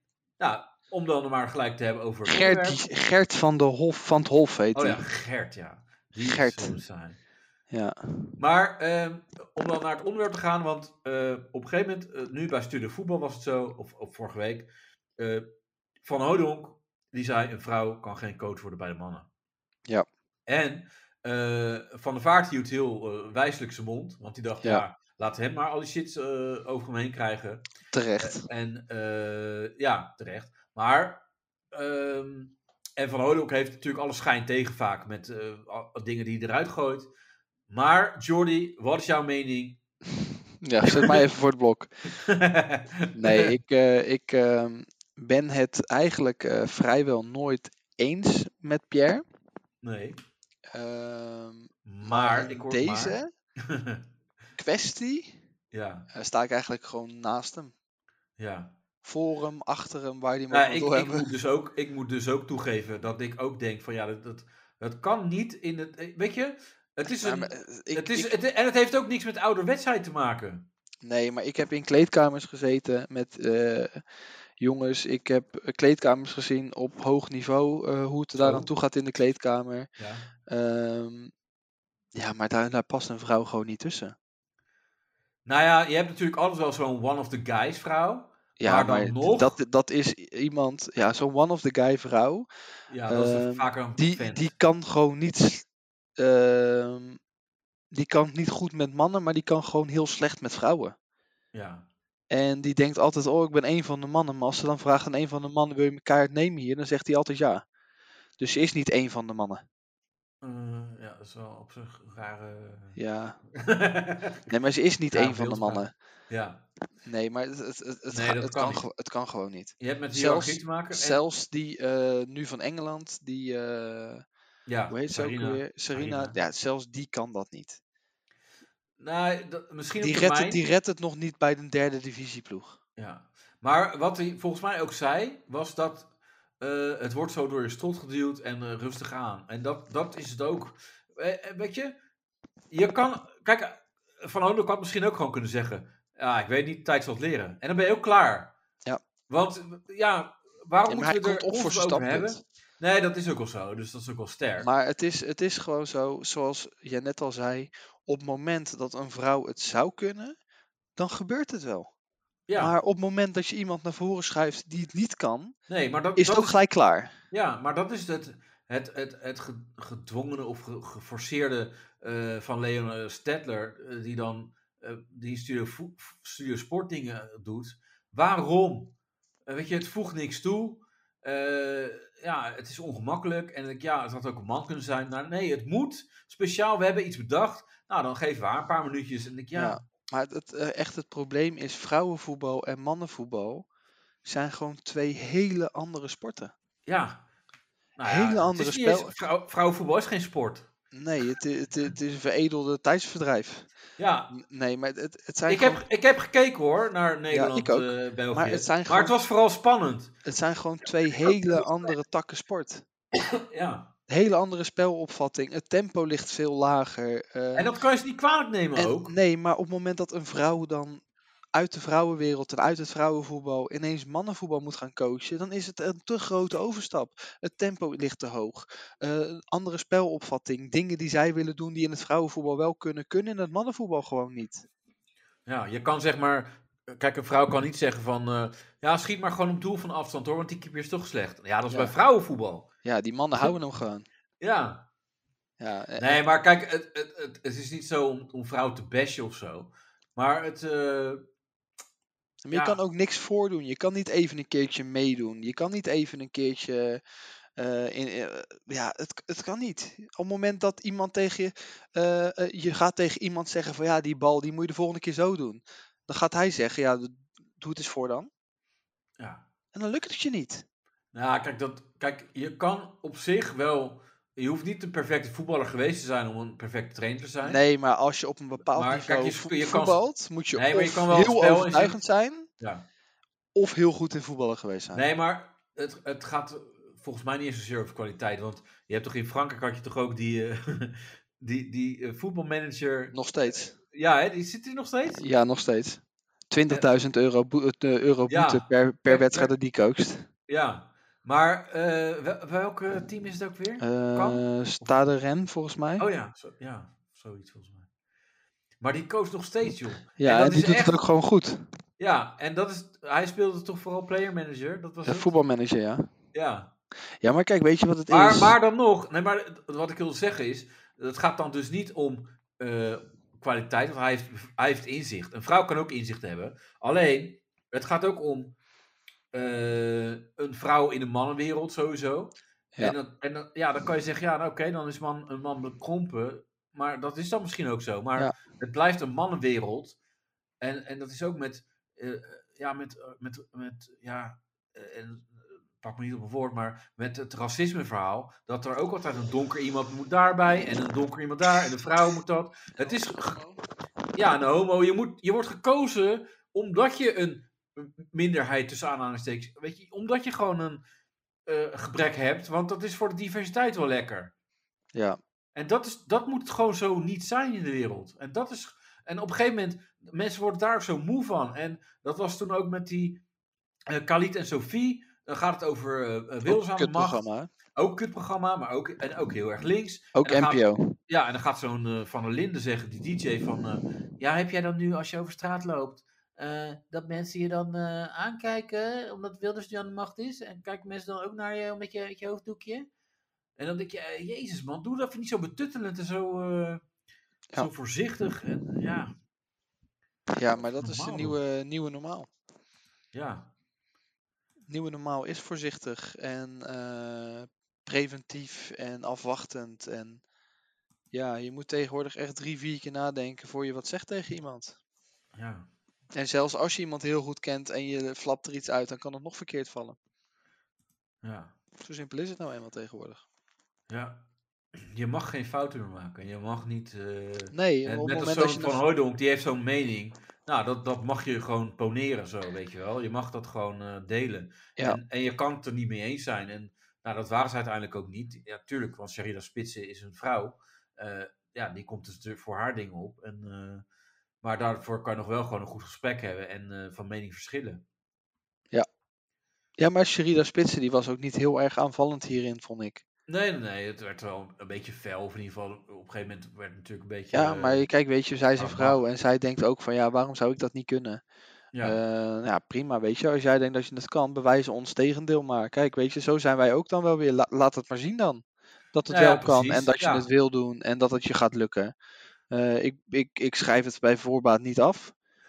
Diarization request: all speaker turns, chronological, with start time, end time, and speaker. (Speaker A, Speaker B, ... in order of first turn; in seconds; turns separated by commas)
Speaker A: 0.4-2.8, Speaker B: 2.3-5.0, Speaker A: 4.7-7.2, Speaker B: 6.2-6.8, Speaker B: 7.7-8.3, Speaker A: 8.4-15.4, Speaker A: 16.0-19.3, Speaker A: 20.5-27.6, Speaker B: 27.9-28.4, Speaker A: 28.2-31.2, Speaker A: 31.7-37.1, Speaker A: 37.7-39.8, Speaker B: 40.6-41.9, Speaker A: 40.8-41.2, Speaker A: 42.1-43.5, Speaker B: 43.1-49.2, Speaker A: 49.8-50.2, Speaker B: 50.7-53.3, Speaker A: 51.9-54.0, Speaker B: 54.6-55.4, Speaker A: 55.7-56.0, Speaker B: 56.1-57.7, Speaker A: 58.4-58.7, Speaker B: 59.0-61.3, Speaker A: 60.5-70.6, Speaker B: 67.1-68.3, Speaker B: 71.0-74.0, Speaker B: 74.6-79.9, Speaker A: 78.4-78.7, Speaker A: 80.0-80.3, Speaker B: 80.5-81.3, Speaker B: 82.1-84.2, Speaker A: 85.4-89.6, Speaker B: 88.6-92.5, Speaker A: 92.9-94.5, Speaker B: 93.1-95.7, Speaker B: 96.2-97.2, Speaker B: 97.9-100.9, Speaker A: 101.5-101.9, Speaker B: 102.3-107.6, Speaker B: 108.4-109.6, Speaker A: 110.4-113.0, Speaker B: 113.0-113.4, Speaker A: 113.5-114.5, Speaker B: 114.5-115.9, Speaker A: 115.1-116.6, Speaker B: 117.0-124.2, Speaker A: 118.1-118.8, Speaker A: 119.8-121.2, Speaker A: 124.7-126.4, Speaker B: 124.9-127.8, Speaker A: 129.0-130.6, Speaker B: 130.0-132.8, Speaker A: 133.0-136.1, Speaker A: 136.6-141.9, Speaker A: 142.7-148.5, Speaker A: 149.3-154.7, Speaker B: 150.9-152.4, Speaker B: 154.6-160.3, Speaker B: 161.0-161.9, Speaker A: 162.5-162.7, Speaker B: 162.6-165.6, Speaker A: 165.7-166.6, Speaker B: 166.2-167.1, Speaker A: 167.3-178.9, Speaker A: 179.5-189.8, Speaker B: 189.5-193.7, Speaker B: 194.2-196.5, Speaker A: 196.8-197.2, Speaker A: 198.0-200.7, Speaker B: 198.1-199.1, Speaker B: 200.9-203.7, Speaker A: 204.0-204.3, Speaker B: 204.3-205.8, Speaker A: 205.5-210.1, Speaker B: 207.3-209.2, Speaker B: 210.2-212.8, Speaker A: 211.2-211.6, Speaker A: 213.1-213.9, Speaker B: 214.1-217.7, Speaker A: 217.5-219.1, Speaker B: 218.8-221.0, Speaker B: 221.5-234.6, Speaker A: 235.4-242.7, Speaker B: 242.8-244.1, Speaker A: 244.4-244.8, Speaker B: 245.6-246.2, Speaker A: 246.0-251.2, Speaker B: 252.4-257.0, Speaker A: 252.5-252.8, Speaker B: 257.6-268.3, Speaker A: 269.2-269.4, Speaker B: 269.7-270.6, Speaker A: 271.1-277.6, Speaker B: 277.4-282.5, Speaker A: 278.7-280.0, Speaker A: 280.5-281.9, Speaker A: 282.6-282.8, Speaker B: 283.5-285.0, Speaker A: 284.9-295.2, Speaker B: 293.1-293.7, Speaker B: 295.2-300.2, Speaker A: 298.3-299.5, Speaker A: 300.5-304.9, Speaker B: 303.8-306.1, Speaker A: 306.0-307.9, Speaker A: 308.8-311.0, Speaker B: 310.2-311.6, Speaker A: 312.0-315.3, Speaker B: 315.0-316.1, Speaker A: 316.3-316.7, Speaker B: 317.2-318.5, Speaker A: 318.1-328.6, Speaker A: 329.3-339.9, Speaker A: 340.6-353.4, Speaker B: 352.8-353.6, Speaker A: 354.1-360.8, Speaker A: 361.5-364.3, Speaker B: 364.9-365.2, Speaker A: 365.5-373.2, Speaker A: 373.9-377.2, Speaker B: 376.4-377.5, Speaker A: 377.7-392.9, Speaker B: 380.1-380.9, Speaker A: 393.6-396.8, Speaker A: 397.6-399.1, Speaker B: 400.3-402.3, Speaker A: 400.5-401.4, Speaker A: 403.1-403.5, Speaker B: 404.7-410.2, Speaker B: 411.1-414.8, Speaker A: 415.4-415.7, Speaker B: 416.1-420.0, Speaker A: 421.2-421.5, Speaker B: 421.8-423.2, Speaker A: 423.9-424.2, Speaker A: 424.8-443.8, Speaker B: 427.5-428.8, Speaker A: 444.4-447.8, Speaker B: 449.8-453.0, Speaker A: 453.3-457.9, Speaker B: 457.3-461.2, Speaker A: 458.6-459.0, Speaker A: 461.7-462.0, Speaker B: 461.8-468.4, Speaker B: 468.9-471.9, Speaker A: 469.1-470.2, Speaker B: 472.5-475.1